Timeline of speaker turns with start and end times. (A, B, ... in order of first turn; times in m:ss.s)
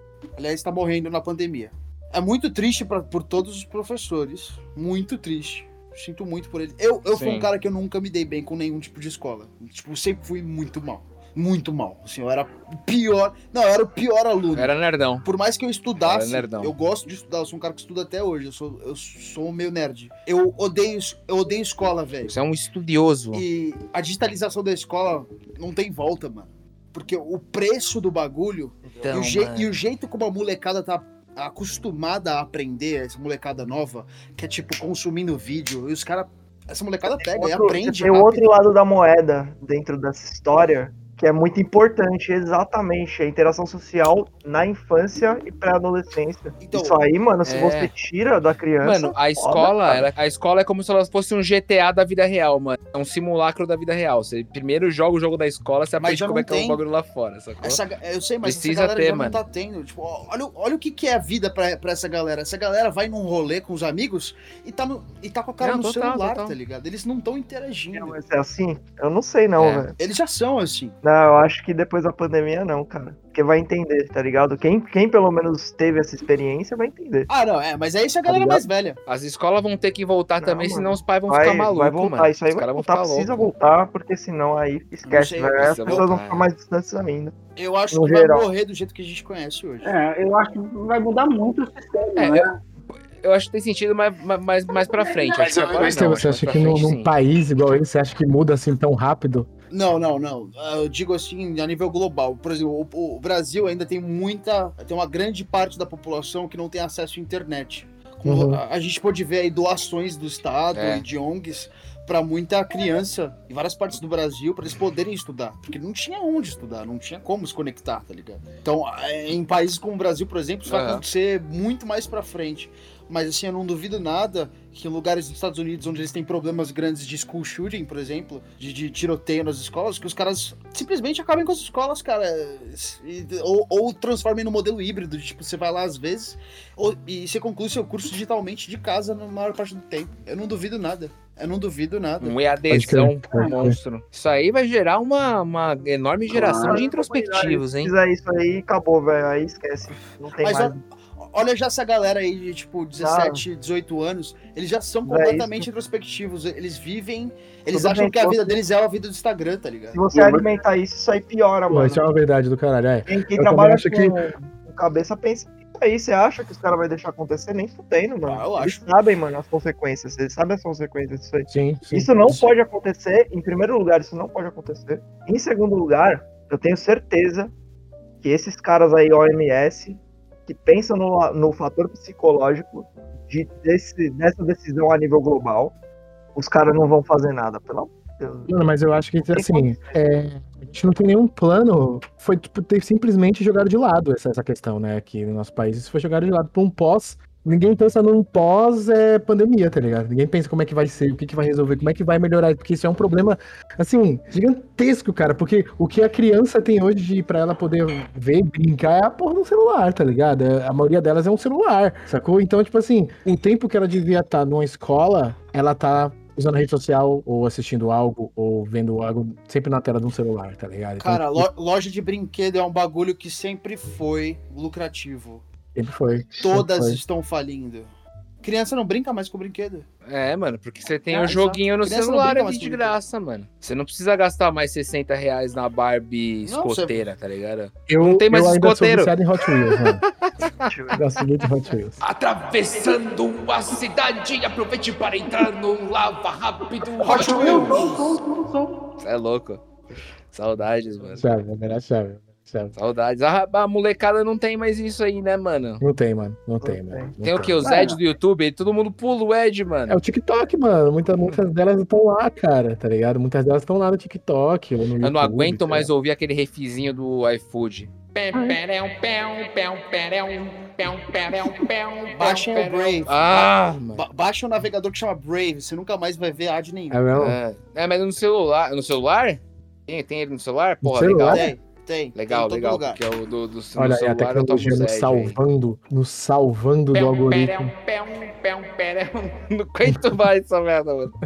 0:00.4-0:22.4 A
0:07.1-0:07.5 B
0:14.6-0:15.2 B
0:16.0-0:16.7 B
0:22.3-0:23.4 B
0:23.3-0:38.5 A
0:28.9-0:29.1 C
0:29.0-0:29.7 B
0:37.2-0:50.1 C
0:46.6-0:47.0 A
0:47.4-0:47.9 B
0:48.8-0:57.8 B
0:56.0-0:56.8 A
0:57.6-1:08.2 A
0:58.4-0:59.4 B
1:05.6-1:06.6 B
1:07.9-1:10.0 C
1:09.6-1:09.9 B
1:10.0-1:11.0 A
1:11.0-1:17.3 C
1:17.3-1:19.0 A
1:18.3-1:18.7 C
1:19.1-1:23.5 B
1:20.4-1:27.4 C
1:25.0-1:26.1 A
1:25.6-1:26.5 B
1:27.6-1:29.9 A
1:27.9-1:28.5 C
1:29.8-1:32.6 D
1:32.2-1:32.5 B
1:33.2-1:37.1 B
1:35.4-1:39.5 E
1:39.7-2:22.3 A
1:48.3-1:48.6 E
1:50.7-1:51.0 B
2:00.7-2:01.0 B
2:22.2-2:27.9 B
2:22.7-2:23.8 E
2:26.3-2:26.8 D
2:26.4-2:30.8 C
2:30.4-2:40.5 A
2:33.0-2:33.4 C
2:35.0-2:35.7 C
2:37.7-2:38.6 C
2:39.9-2:42.0 C
2:41.7-2:44.2 E
2:43.1-2:57.5 C
2:48.2-2:48.8 A
2:51.5-2:52.5 E
2:58.2-3:05.7 C
3:06.4-3:08.5 C
3:08.5-3:41.5 E
3:09.3-3:10.1 C
3:41.0-3:45.4 A
3:45.8-3:47.0 E
3:46.4-3:47.9 A
3:48.4-3:49.9 A
3:50.1-4:00.7 B
3:51.1-3:53.0 A
3:56.4-3:57.0 A
3:57.9-4:00.0 E
4:00.7-4:01.1 C
4:00.9-4:02.0 E
4:02.0-4:08.2 B
4:07.0-4:07.9 A
4:07.0-4:08.8 D
4:09.0-4:09.6 B
4:10.3-4:11.3 B
4:11.2-4:12.7 E
4:12.8-4:15.8 B
4:15.8-4:17.6 E
4:16.6-4:17.1 C
4:17.2-4:20.0 B
4:17.6-4:18.0 D
4:19.9-4:25.9 E
4:25.0-4:34.0 B
4:28.3-4:28.6 E
4:32.1-4:37.0 A
4:36.9-4:37.4 E
4:37.2-4:41.5 B
4:40.8-4:41.5 E
4:41.3-4:43.0 A
4:42.2-4:45.4 B
4:43.8-4:47.7 E
4:46.9-4:51.2 B